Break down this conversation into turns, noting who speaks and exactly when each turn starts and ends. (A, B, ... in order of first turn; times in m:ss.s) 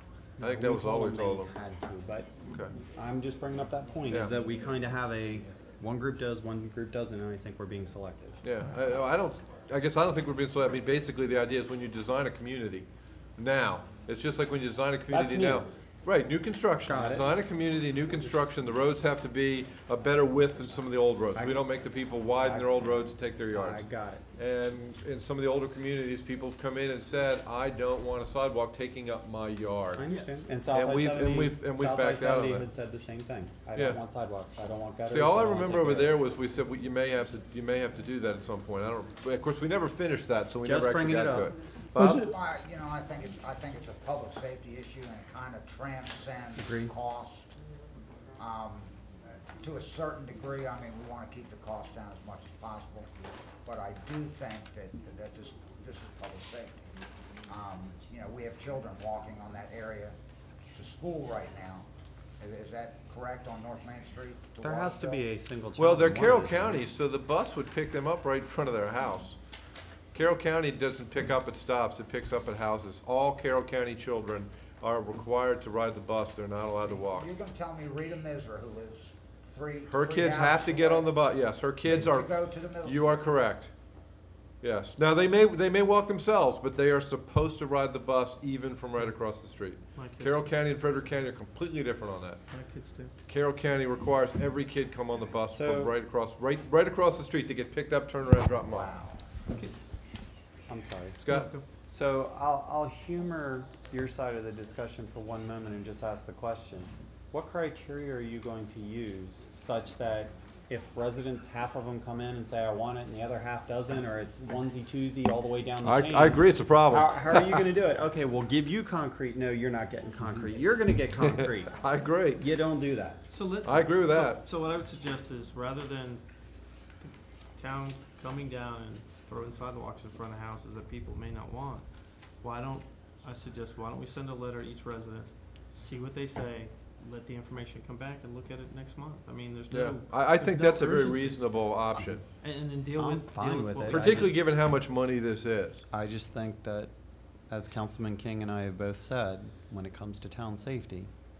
0:00.4-0:02.4 A
0:00.4-0:01.5 B
0:02.4-0:02.8 B
0:02.9-0:08.4 A
0:04.1-0:04.4 B
0:08.4-0:30.0 B
0:15.1-0:15.7 A
0:16.8-0:17.3 A
0:21.3-0:21.7 A
0:22.4-0:23.0 A
0:23.5-0:24.2 A
0:30.0-0:36.2 A
0:30.7-0:32.7 B
0:33.7-0:34.0 B
0:35.1-0:42.3 B
0:40.6-0:41.5 A
0:42.0-0:47.5 C
0:46.6-0:46.9 A
0:48.4-0:53.1 C
0:53.6-0:56.9 C
0:57.5-1:00.2 C
1:00.7-1:01.9 C
1:02.4-1:05.2 C
1:04.6-1:06.9 A
1:05.8-1:09.4 B
1:10.1-1:17.3 B
1:16.9-1:21.2 C
1:19.9-1:23.7 B
1:21.8-1:23.2 C
1:24.6-1:32.4 B
1:30.0-1:30.5 D
1:32.5-1:33.1 D
1:33.3-1:38.9 B
1:35.5-1:36.0 A
1:38.6-1:39.2 C
1:40.7-1:41.2 A
1:41.2-1:41.5 B
1:41.3-1:41.6 D
1:41.9-2:01.7 A
1:55.8-1:57.6 B
2:01.2-2:02.4 B
2:02.4-2:03.2 A
2:03.3-2:06.2 D
2:03.6-2:04.4 B
2:07.0-2:11.9 D
2:12.4-2:21.6 D
2:19.7-2:22.2 B
2:22.4-2:24.4 D
2:23.0-2:24.4 A
2:23.9-2:25.8 B
2:25.9-2:26.9 A
2:27.5-2:31.1 A